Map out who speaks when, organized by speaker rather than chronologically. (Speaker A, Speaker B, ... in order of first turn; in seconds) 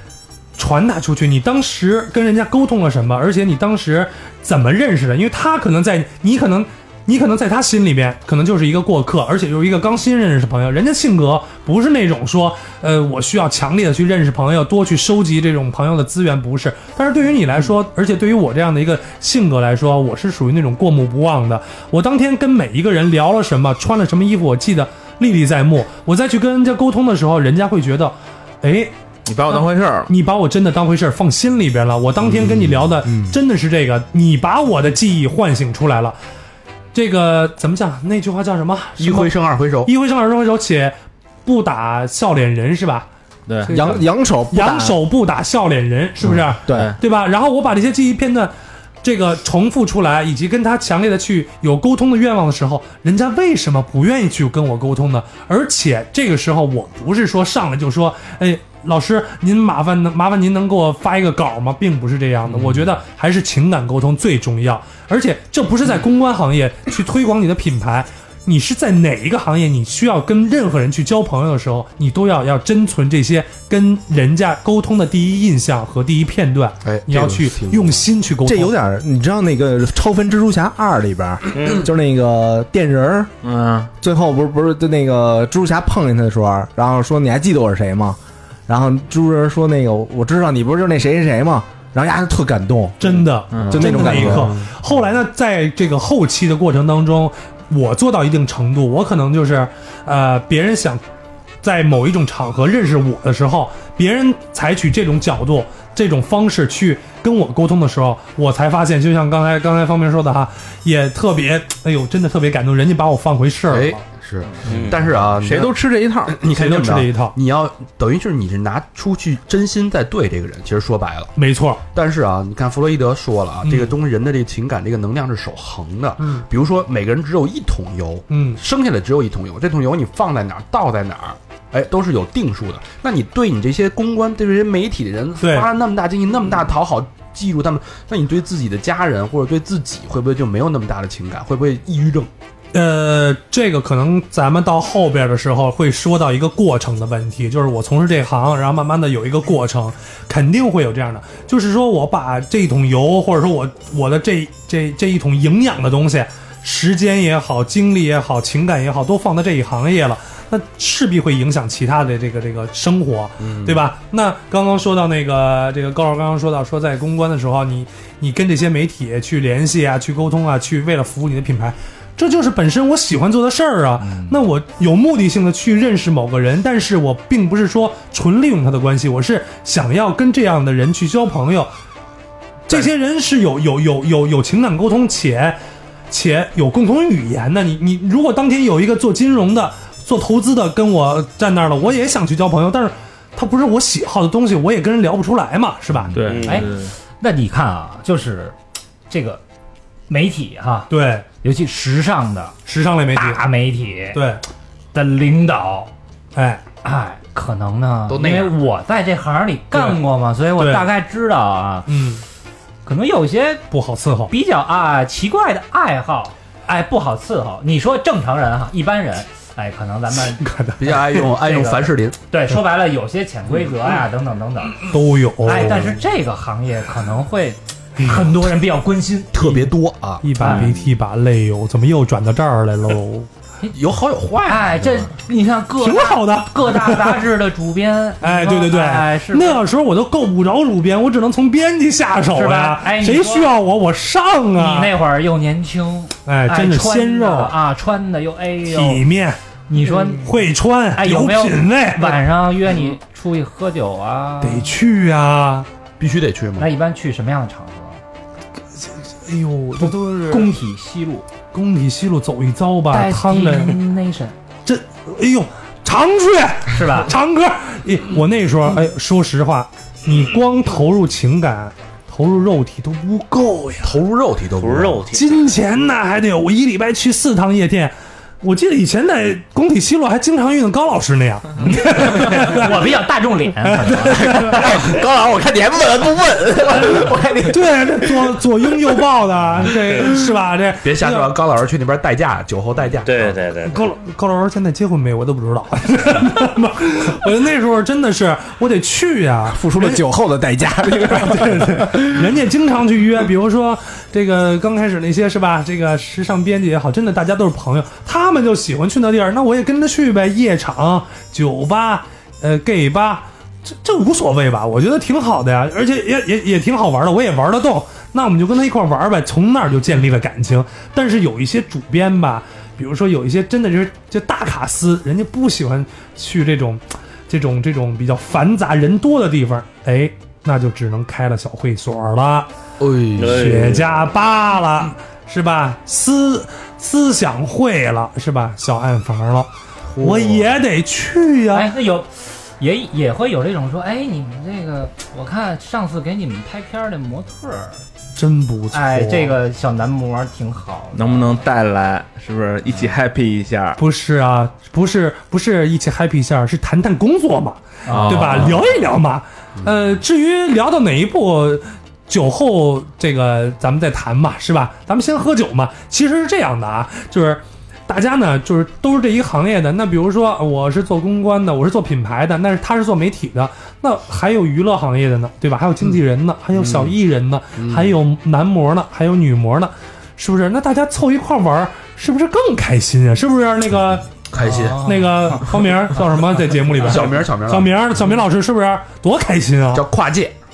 Speaker A: 0.6-28.9, 29.5-36.2, 36.9-39.3, 39.8-43.1, 43.6-48.5, 49.0-78.7, 93.0-101.0, 101.6-114.0, 116.5-117.3, 121.3-121.8, 123.6-123.9, 126.2-126.4, 128.3-128.6, 135.4-135.7, 142.7-181.7, 182.7-185.6, 186.1-196.1, 200.9-201.2, 202.7-203.4, 204.1-204.4, 206.3-206.6, 209.7-210.0, 210.6-210.9, 211.9-212.2, 213.7-214.3, 220.3-221.3, 224.9-225.9, 228.0-228.3, 230.2-233.3, 235.8-237.2, 238.2-244.9, 246.2-247.5, 248.7-249.4, 250.0-252.2, 254.4-255.7, 258.8-260.5, 261.5-263.8, 264.6-274.0, 275.1-282.8, 283.6-284.8, 287.4-291.4, 293.7-300.0, 300.9-332.5, 333.2-341.7, 348.1-349.3, 353.8-384.1, 384.8-389.8
Speaker B: 29.2-30.1, 43.5-43.8, 46.7-47.0, 83.4-83.9, 93.5-94.1, 115.3-116.3, 196.1-196.9, 350.9-353.8, 357.9-358.5
Speaker C: 32.3-32.8, 39.0-39.9, 76.8-78.0, 113.7-121.3, 121.9-142.3, 163.4-163.8, 208.1-208.6, 220.8-222.2, 229.3-230.8, 233.7-235.1, 256.0-256.7, 273.8-275.1, 290.8-293.4, 332.8-333.6, 339.9-340.5, 357.9-358.6, 376.5-376.9, 377.6-377.9, 384.3-384.9, 386.8-387.7, 389.7-390.3
Speaker D: 43.7-45.0, 46.2-46.9, 78.4-83.3, 84.0-94.7, 284.1-288.2, 299.5-302.2
Speaker E: 81.5-81.8, 114.6-115.1, 196.2-196.7, 274.6-275.4, 293.0-293.8, 333.2-334.1
Speaker F: 174.0-174.3, 196.4-198.5, 199.1-199.4, 200.1-200.9, 201.4-202.6, 203.1-204.2, 204.9-205.9, 206.8-211.9, 212.8-213.6, 214.3-220.4, 221.4-224.8, 225.4-229.3, 230.4-230.7, 234.4-239.6, 242.3-243.5, 244.6-249.0, 249.7-250.4, 250.9-254.7, 256.6-258.0, 259.8-261.2, 262.9-264.3, 266.7-267.1, 281.6-284.5, 341.5-347.8, 348.7-351.4, 357.9-358.6, 384.4-385.4